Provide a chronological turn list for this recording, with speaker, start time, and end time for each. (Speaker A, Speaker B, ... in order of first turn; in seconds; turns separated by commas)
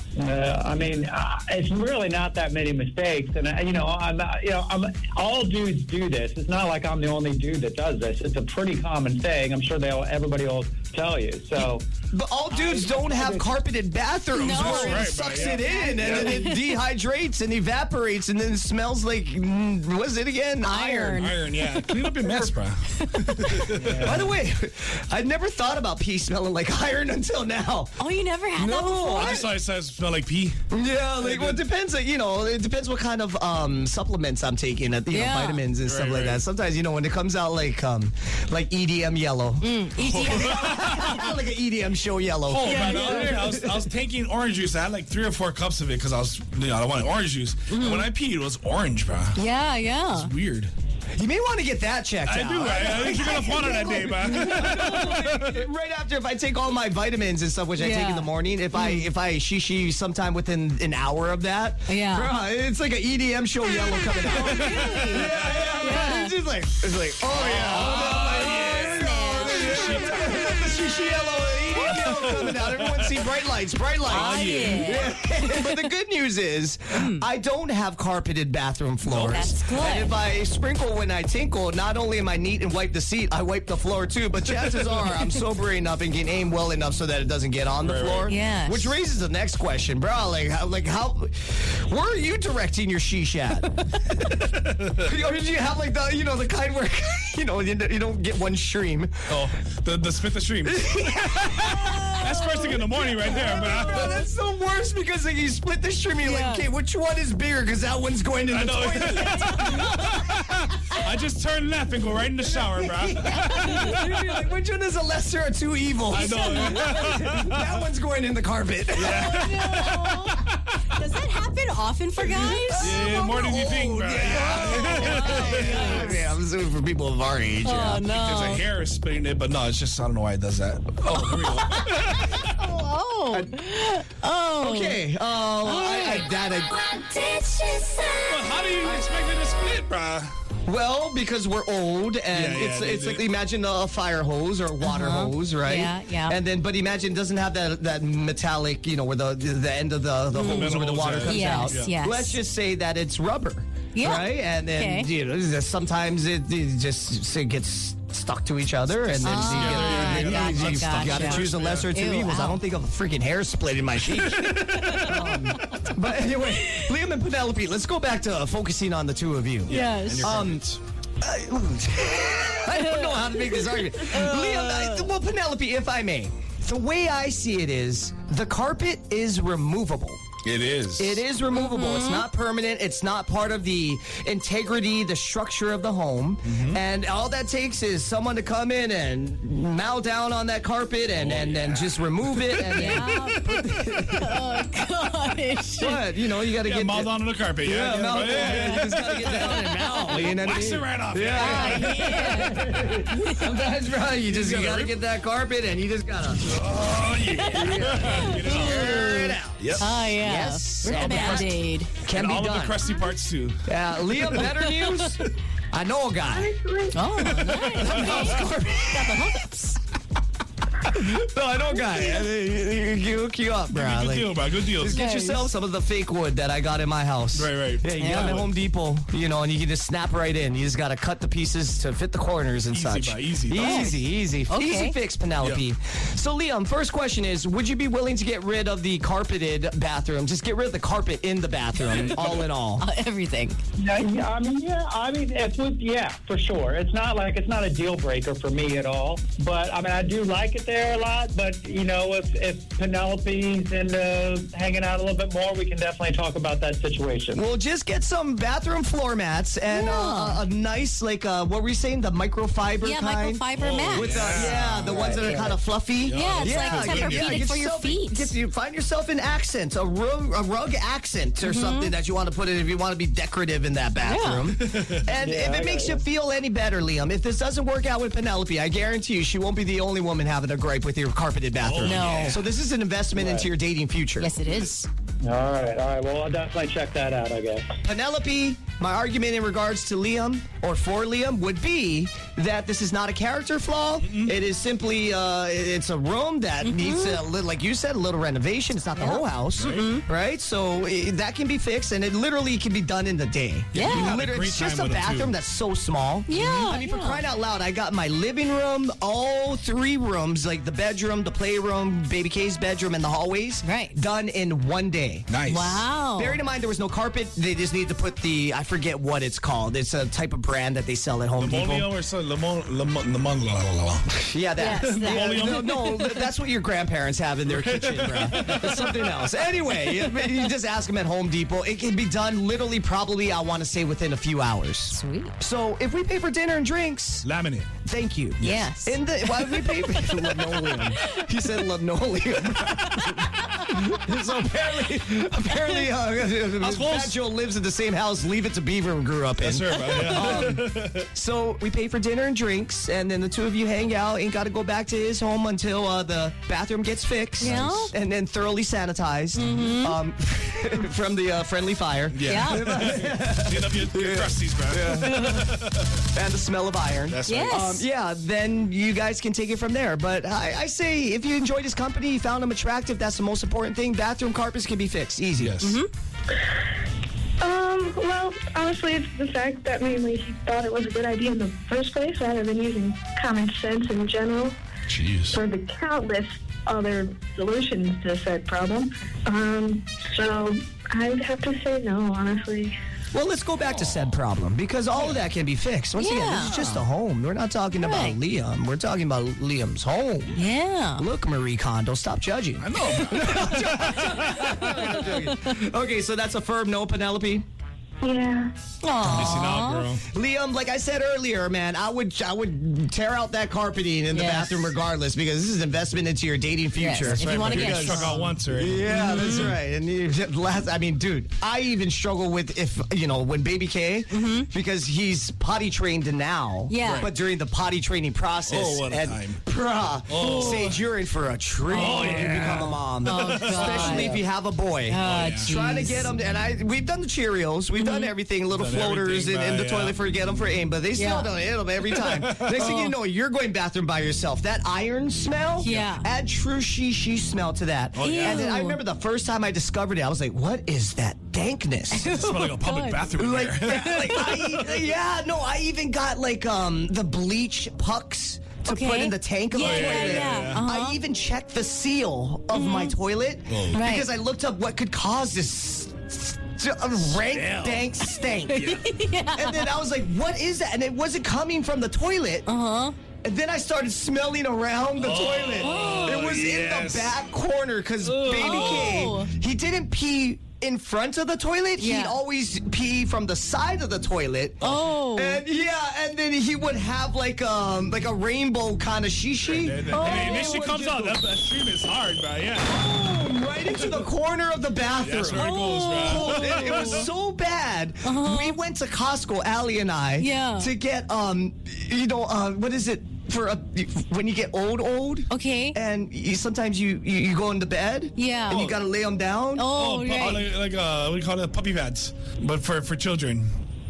Speaker A: 0.2-11.9, Speaker B: 12.1-21.3, Speaker A: 12.5-13.5, Speaker C: 14.3-16.7, Speaker D: 14.5-16.4, Speaker C: 20.6-23.8, Speaker D: 21.2-24.4, Speaker B: 24.0-29.5, Speaker C: 28.0-29.5, Speaker D: 29.1-30.6, Speaker B: 30.7-43.8, Speaker D: 31.2-31.6, Speaker C: 35.1-35.6, Speaker D: 35.9-36.4, Speaker C: 39.6-41.2, Speaker D: 40.0-41.1, Speaker D: 42.5-49.4, Speaker C: 42.6-43.3, Speaker C: 47.7-48.1, Speaker C: 49.4-50.3, Speaker D: 50.1-50.7, Speaker B: 51.1-94.3, Speaker D: 52.2-55.7, Speaker C: 57.8-59.1, Speaker C: 61.9-62.3, Speaker C: 63.7-65.2, Speaker D: 64.4-65.8, Speaker C: 65.8-66.4, Speaker D: 67.3-70.9, Speaker C: 67.7-70.4, Speaker D: 71.8-73.1, Speaker D: 74.0-75.1, Speaker C: 74.1-75.8, Speaker C: 76.9-77.3, Speaker D: 79.1-79.5, Speaker C: 79.2-80.1, Speaker D: 87.8-88.3, Speaker C: 88.3-88.9, Speaker B: 95.0-99.3, Speaker D: 99.3-104.1, Speaker B: 100.6-102.1, Speaker C: 101.6-104.3, Speaker B: 103.2-109.9, Speaker C: 106.2-106.7, Speaker D: 108.5-114.1, Speaker C: 109.3-110.0, Speaker B: 112.4-119.4, Speaker C: 113.5-113.9, Speaker D: 116.1-117.8, Speaker C: 116.1-117.1, Speaker D: 119.0-120.5, Speaker C: 119.0-126.4, Speaker B: 122.2-128.0, Speaker D: 122.8-126.2, Speaker C: 127.6-128.6, Speaker D: 128.0-132.5, Speaker C: 131.1-135.0, Speaker B: 134.6-137.1, Speaker C: 135.6-136.3, Speaker C: 137.1-138.3, Speaker D: 138.3-140.3, Speaker B: 140.7-170.6, Speaker D: 142.3-143.3, Speaker C: 144.8-146.4, Speaker C: 150.3-150.7, Speaker D: 150.4-151.9, Speaker C: 151.2-152.4, Speaker C: 153.9-155.1, Speaker D: 159.1-161.9, Speaker C: 159.2-162.6, Speaker D: 164.1-165.4, Speaker C: 164.8-165.8, Speaker C: 166.6-166.9, Speaker D: 169.7-170.8, Speaker C: 169.7-170.4, Speaker B: 171.2-180.2, Speaker C: 172.7-175.1, Speaker D: 180.4-181.2, Speaker B: 181.0-194.4, Speaker C: 181.5-182.2, Speaker D: 186.4-186.8, Speaker D: 191.1-193.3, Speaker C: 192.7-193.5, Speaker C: 194.0-196.0, Speaker B: 195.8-206.4, Speaker D: 196.6-202.3, Speaker C: 198.3-200.1, Speaker C: 201.4-203.5, Speaker D: 204.2-204.9, Speaker D: 206.4-210.1, Speaker B: 207.4-212.8, Speaker C: 207.6-211.9, Speaker D: 210.8-213.7, Speaker B: 213.6-215.2, Speaker D: 215.0-215.3, Speaker B: 215.7-216.5, Speaker E: 216.2-217.0, Speaker C: 216.9-219.8, Speaker D: 217.2-218.4, Speaker B: 217.7-219.2, Speaker B: 220.9-242.8, Speaker E: 221.8-222.3, Speaker D: 223.7-225.0, Speaker C: 224.9-225.5, Speaker D: 227.3-228.5, Speaker C: 228.0-228.4, Speaker D: 232.7-233.9, Speaker C: 233.5-235.0, Speaker D: 235.4-235.6, Speaker D: 241.9-242.2, Speaker C: 242.8-243.6, Speaker A: 243.8-257.4, Speaker B: 257.3-284.3, Speaker C: 259.7-260.4, Speaker C: 262.8-264.3, Speaker D: 263.5-265.1, Speaker A: 264.8-265.6, Speaker D: 265.9-267.3, Speaker C: 266.1-268.4, Speaker C: 271.4-271.9, Speaker C: 274.0-274.5, Speaker D: 274.6-275.1, Speaker A: 275.2-276.0, Speaker D: 281.6-282.4, Speaker C: 281.8-282.4, Speaker A: 283.1-283.5, Speaker C: 284.2-284.9, Speaker A: 285.2-287.7, Speaker B: 287.8-315.3, Speaker D: 294.0-294.4, Speaker C: 296.6-297.2, Speaker C: 298.9-300.0, Speaker D: 299.6-299.9, Speaker D: 303.7-305.4, Speaker C: 303.8-304.1, Speaker C: 306.3-307.2, Speaker C: 313.6-314.0, Speaker D: 315.3-315.9, Speaker C: 315.5-316.4, Speaker B: 316.1-321.9, Speaker D: 321.4-324.1, Speaker B: 324.1-337.2, Speaker C: 324.6-326.2, Speaker D: 324.8-325.9, Speaker D: 327.4-329.1, Speaker C: 334.9-335.4, Speaker D: 337.2-337.7, Speaker B: 337.9-365.6, Speaker D: 338.4-338.6, Speaker C: 338.4-341.2, Speaker D: 346.6-347.2, Speaker D: 349.4-351.1, Speaker C: 357.4-357.9, Speaker D: 357.4-357.9, Speaker C: 359.3-360.0, Speaker D: 362.1-366.0, Speaker C: 362.2-362.6, Speaker B: 366.1-375.6, Speaker D: 367.1-367.8, Speaker C: 367.2-367.9, Speaker D: 375.4-375.8, Speaker C: 375.6-375.9, Speaker E: 377.4-384.6, Speaker D: 384.9-385.4, Speaker E: 385.3-392.7, Speaker B: 393.1-400.4, Speaker D: 394.9-395.3, Speaker C: 396.0-396.5, Speaker D: 396.4-396.8, Speaker C: 397.7-398.2, Speaker C: 400.3-401.1, Speaker B: 401.0-407.4, Speaker D: 402.6-404.1, Speaker C: 404.2-405.5, Speaker E: 408.0-408.5, Speaker C: 408.8-409.9, Speaker B: 409.0-409.4, Speaker D: 409.1-410.0, Speaker B: 410.1-452.1, Speaker C: 414.1-414.7, Speaker C: 416.7-418.3, Speaker D: 417.1-419.5, Speaker C: 418.9-419.6, Speaker C: 424.1-424.5, Speaker C: 426.7-427.1, Speaker D: 426.8-427.1, Speaker D: 428.5-429.4, Speaker D: 430.1-430.9, Speaker C: 430.2-430.6, Speaker D: 431.7-433.6, Speaker C: 431.7-434.2, Speaker A: 433.6-434.2, Speaker C: 434.9-436.2, Speaker D: 435.0-435.5, Speaker C: 437.8-438.1, Speaker D: 438.5-440.0, Speaker C: 440.9-441.3, Speaker D: 441.9-442.6, Speaker C: 442.6-442.9, Speaker C: 445.6-446.1, Speaker D: 445.6-445.9, Speaker D: 447.9-448.5, Speaker C: 448.0-448.8, Speaker C: 451.9-453.1, Speaker D: 452.0-454.9, Speaker B: 453.2-468.6, Speaker C: 453.7-454.3, Speaker C: 458.6-461.0, Speaker D: 459.6-460.6, Speaker C: 462.5-462.9, Speaker D: 463.5-463.8, Speaker C: 463.7-464.1, Speaker D: 467.0-467.9, Speaker C: 468.1-469.7, Speaker D: 468.5-469.0, Speaker B: 469.4-472.5, Speaker C: 472.4-472.9, Speaker B: 473.2-484.6, Speaker D: 474.9-477.1, Speaker C: 475.6-476.2, Speaker D: 478.0-479.0, Speaker C: 478.4-479.3, Speaker C: 481.8-482.2, Speaker D: 484.6-484.9, Speaker C: 484.6-485.4, Speaker B: 485.1-490.9, Speaker D: 489.4-493.1, Speaker C: 489.9-491.2, Speaker B: 492.6-509.7, Speaker D: 493.7-494.1, Speaker D: 495.0-497.1, Speaker C: 495.3-497.0, Speaker C: 498.0-498.6, Speaker C: 500.2-500.7, Speaker C: 505.3-505.8, Speaker C: 508.1-508.6, Speaker D: 508.5-508.8, Speaker C: 509.6-510.5, Speaker D: 509.7-513.5